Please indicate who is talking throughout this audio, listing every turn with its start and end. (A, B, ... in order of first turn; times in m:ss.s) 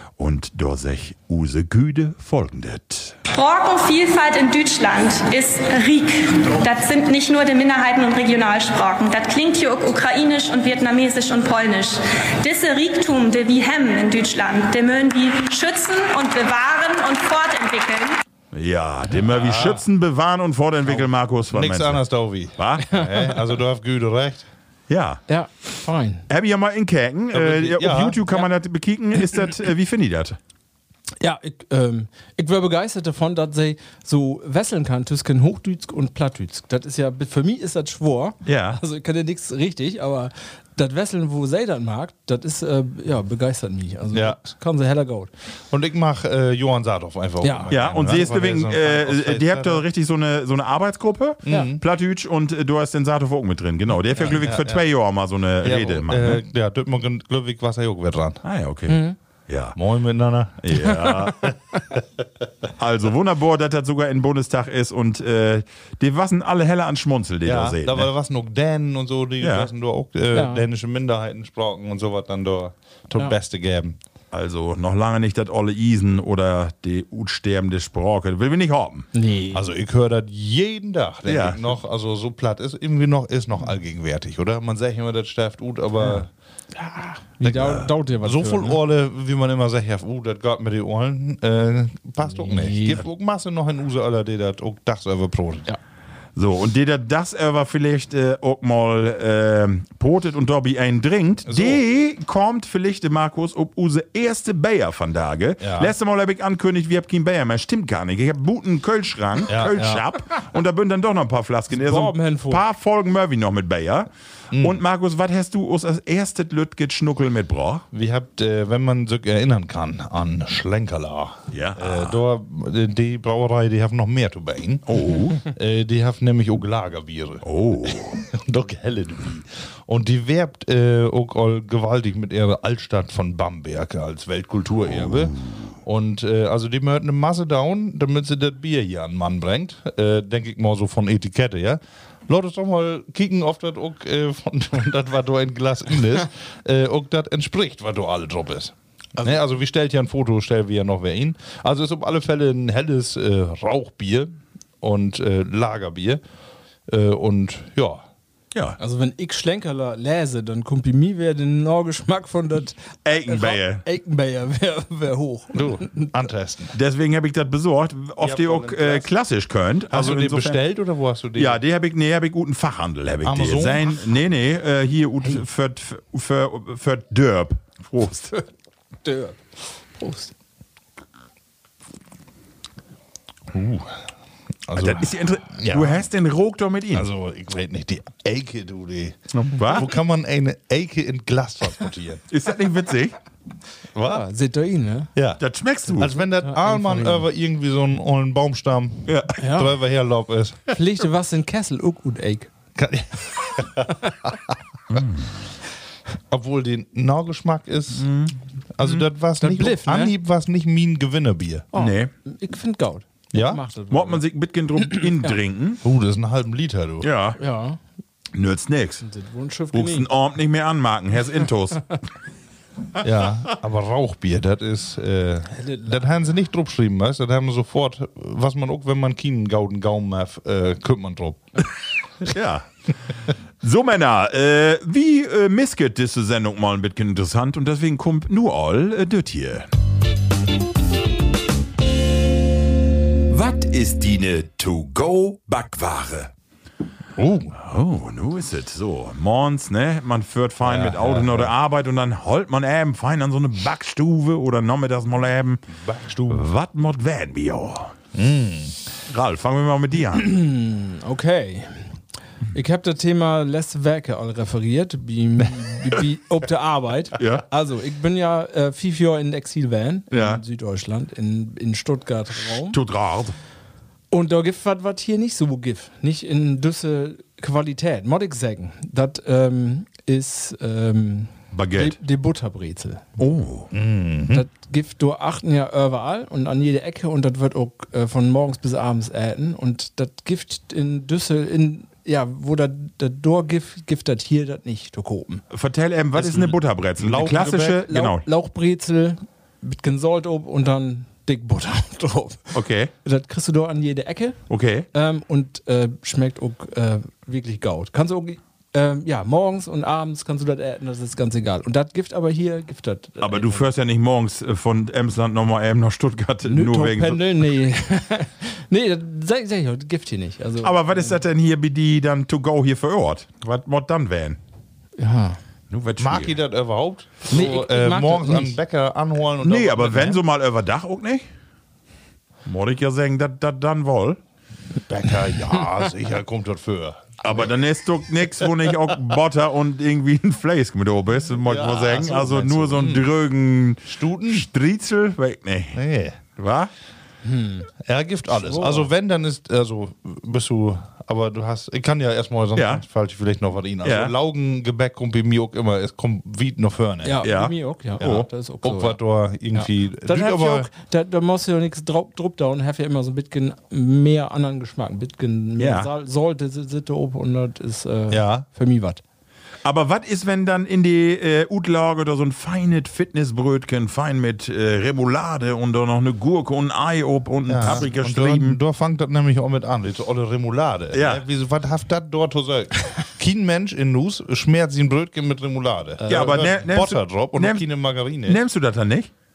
0:00.2-0:03.2 A
0:03.3-0:18.2 B
0:18.5-0:22.0 A
0:19.2-0:19.8 C
0:20.9-0:24.5 C
0:22.6-0:22.9 A
0:22.9-0:23.3 D
0:24.9-0:25.2 A
0:25.3-0:26.2 D
0:26.3-0:30.4 A
0:27.3-0:28.2 C
0:31.2-0:45.3 D
0:38.4-0:38.8 A
0:44.1-0:44.4 C
0:45.7-0:49.8 C
0:47.4-0:47.7 D
0:47.7-0:56.4 A
0:51.5-0:51.8 C
0:54.1-0:54.8 C
0:55.6-0:58.4 C
0:58.4-0:59.8 A
0:58.9-0:59.2 D
0:59.8-1:01.1 C
1:00.6-1:01.6 A
1:02.8-1:08.1 A
1:07.4-1:14.0 C
1:09.4-1:09.7 A
1:10.3-1:10.6 D
1:14.3-1:19.1 A
1:19.1-1:19.7 D
1:19.5-1:26.3 C
1:21.3-1:21.7 A
1:26.8-1:28.8 D
1:27.4-1:35.7 C
1:27.5-1:27.9 A
1:32.2-1:33.0 D
1:36.4-1:57.8 A
1:41.5-1:41.8 C
1:45.6-1:45.9 C
1:49.5-1:50.0 C
1:51.7-1:52.6 D
1:54.5-1:54.8 C
1:57.9-2:36.2 C
2:01.5-2:02.2 A
2:04.9-2:05.4 A
2:07.4-2:08.2 A
2:36.9-2:38.0 C
2:38.8-2:46.1 D
2:43.0-2:43.8 A
2:45.5-2:46.8 C
2:46.7-2:50.6 A
2:48.2-2:49.1 C
2:49.9-2:51.6 C
2:51.4-2:58.3 A
2:53.2-2:54.0 C
2:59.0-3:00.3 D
3:03.5-3:03.9 C
3:04.7-3:06.1 C
3:04.8-3:07.1 A
3:06.9-3:12.2 C
3:09.3-3:09.9 A
3:12.3-3:13.2 A
3:14.0-3:14.2 C
3:14.0-3:15.1 D
3:15.1-3:20.7 C
3:15.4-3:16.2 A
3:16.2-3:17.2 D
3:19.1-3:19.4 A
3:19.4-3:19.7 D
3:20.7-3:22.5 D
3:22.8-3:25.0 C
3:24.9-3:25.3 A
3:26.3-3:28.1 C
3:28.0-3:29.0 A
3:28.8-3:31.7 C
3:29.4-3:30.1 D
3:31.7-3:34.2 D
3:31.7-3:32.1 A
3:33.3-3:33.6 C
3:33.9-3:35.8 A
3:34.8-3:35.4 D
3:35.8-3:37.1 C
3:37.0-3:37.4 A
3:37.4-3:37.8 D
3:38.3-3:39.0 A
3:39.0-3:40.1 D
3:39.7-3:41.9 A
3:43.0-3:51.5 C
3:45.5-3:46.1 D
3:52.2-3:52.6 A
3:53.6-3:59.7 A
4:03.3-4:06.3 A
4:07.2-4:07.6 C
4:07.6-4:15.6 A
4:10.6-4:11.5 C
4:15.7-4:16.4 C
4:16.3-4:17.9 A
4:18.1-4:18.8 C
4:19.1-4:20.3 A
4:20.1-4:21.9 D
4:22.5-4:32.8 D
4:27.2-4:27.5 A
4:30.1-4:30.4 A
4:32.7-4:33.4 A
4:34.1-4:43.0 D
4:41.5-4:42.0 A
4:43.2-4:43.7 A
4:43.7-4:44.5 C
4:44.3-4:55.4 D
4:55.5-4:58.2 A
4:56.2-4:57.8 C
4:57.5-5:04.4 D
5:02.5-5:02.9 A
5:04.5-5:04.9 A
5:04.9-5:13.7 D
5:13.2-5:17.3 A
5:16.5-5:21.2 D
5:20.6-5:24.4 A
5:25.0-5:25.4 D
5:25.7-5:26.4 A
5:26.0-5:30.2 C
5:27.3-5:28.6 D
5:29.4-5:31.2 A
5:32.5-5:34.2 A
5:34.9-5:37.5 C
5:37.2-5:45.8 A
5:41.4-5:43.1 C
5:43.8-5:44.5 C
5:45.7-5:46.2 C
5:46.4-5:46.7 A
5:47.2-5:47.7 D
5:47.8-5:57.2 C
5:48.3-5:48.9 D
5:52.5-5:52.8 A
5:53.8-5:54.1 A
5:57.0-5:59.0 D
5:57.2-5:58.3 A
5:58.0-6:00.7 C
5:59.5-6:09.0 D
6:05.6-6:05.9 A
6:08.1-6:08.5 C
6:09.6-6:18.6 A
6:17.5-6:28.4 C
6:20.9-6:21.2 A
6:26.0-6:26.5 D
6:26.1-6:27.7 A
6:28.2-6:29.1 A